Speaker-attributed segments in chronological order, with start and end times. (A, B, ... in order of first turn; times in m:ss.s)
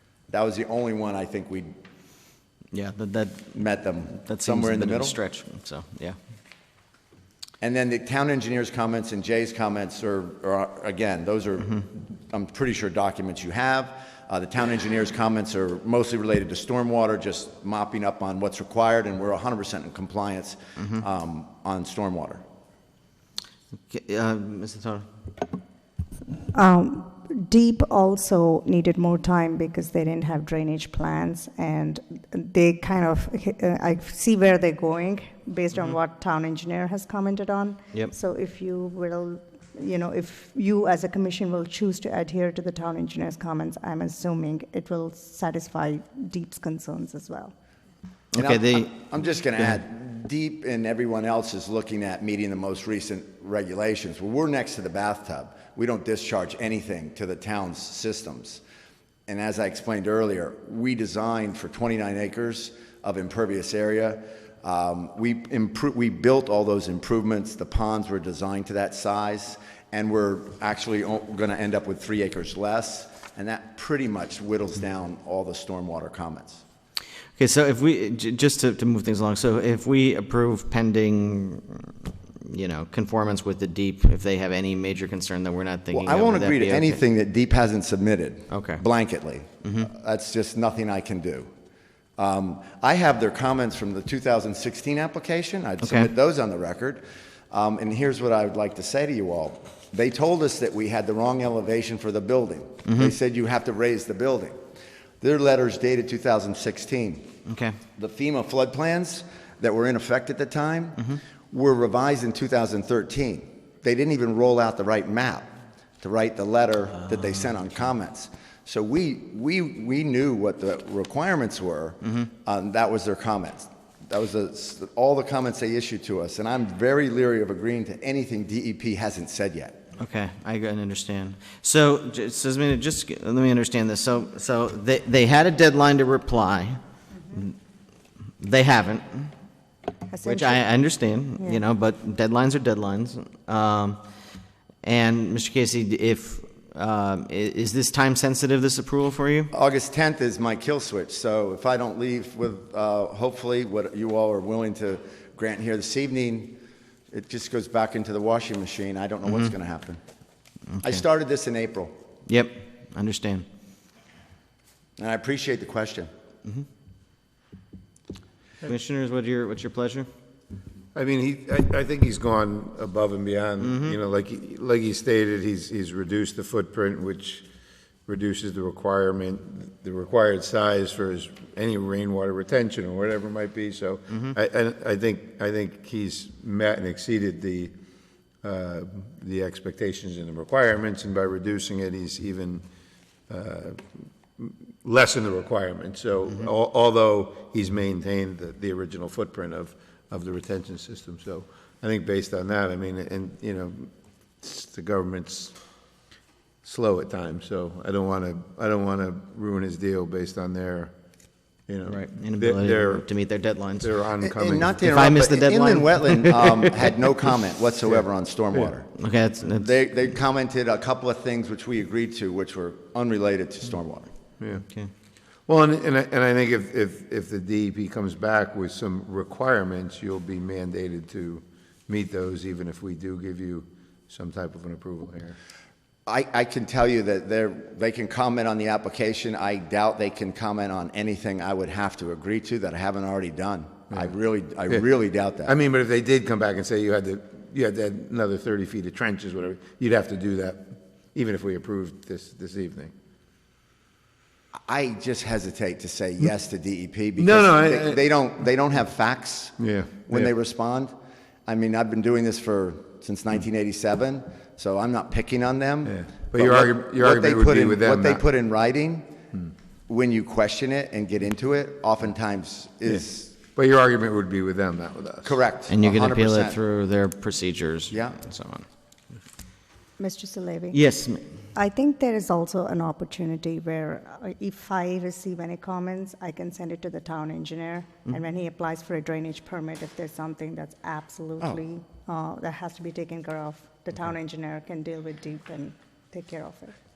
0:00.3-0:01.7 A
0:02.7-0:03.5 B
0:03.5-0:05.2 A
0:04.2-0:06.2 B
0:07.6-0:22.4 A
0:23.9-0:25.0 B
0:26.5-0:47.5 C
0:48.3-0:48.9 B
0:48.4-0:58.6 A
0:59.3-1:16.6 A
1:17.4-1:27.0 B
1:25.9-1:31.5 A
1:28.5-1:28.8 B
1:29.6-1:29.9 B
1:32.2-1:44.6 A
1:35.8-1:36.1 B
1:42.8-1:43.1 B
1:45.2-1:47.3 A
1:47.4-1:47.8 B
1:48.0-1:55.5 A
1:56.0-2:09.8 A
2:10.0-2:16.8 B
2:18.4-2:19.3 B
2:20.1-2:20.7 C
2:20.2-2:24.0 B
2:24.8-2:29.5 B
2:29.5-2:36.6 A
2:37.1-2:40.0 A
2:39.2-2:39.5 B
2:40.7-2:41.0 B
2:40.8-2:41.9 A
2:42.3-2:43.4 B
2:45.0-2:46.1 A
2:48.6-2:50.1 B
2:50.9-2:57.4 D
2:53.6-2:54.0 B
2:58.1-3:07.7 D
3:08.4-3:12.6 D
3:13.3-3:13.8 D
3:14.4-3:23.9 D
3:24.4-3:25.5 D
3:26.6-3:30.9 D
3:31.7-3:33.2 D
3:31.9-3:33.9 B
3:33.8-3:34.8 D
3:34.2-3:38.9 A
3:34.8-3:36.7 B
3:39.0-3:39.7 B
3:39.4-3:44.1 A
3:44.4-3:44.6 D
3:45.5-3:55.4 D
3:56.1-4:05.5 A
4:05.4-4:12.9 D
4:14.6-4:20.9 A
4:17.2-4:18.0 D
4:19.6-4:20.3 D
4:21.5-4:29.1 A
4:25.8-4:28.2 D
4:29.9-4:33.3 A
4:32.9-4:35.4 D
4:35.2-4:36.6 A
4:35.7-4:38.6 B
4:37.9-4:38.2 A
4:40.0-4:40.8 C
4:40.7-4:41.2 B
4:41.5-4:56.7 C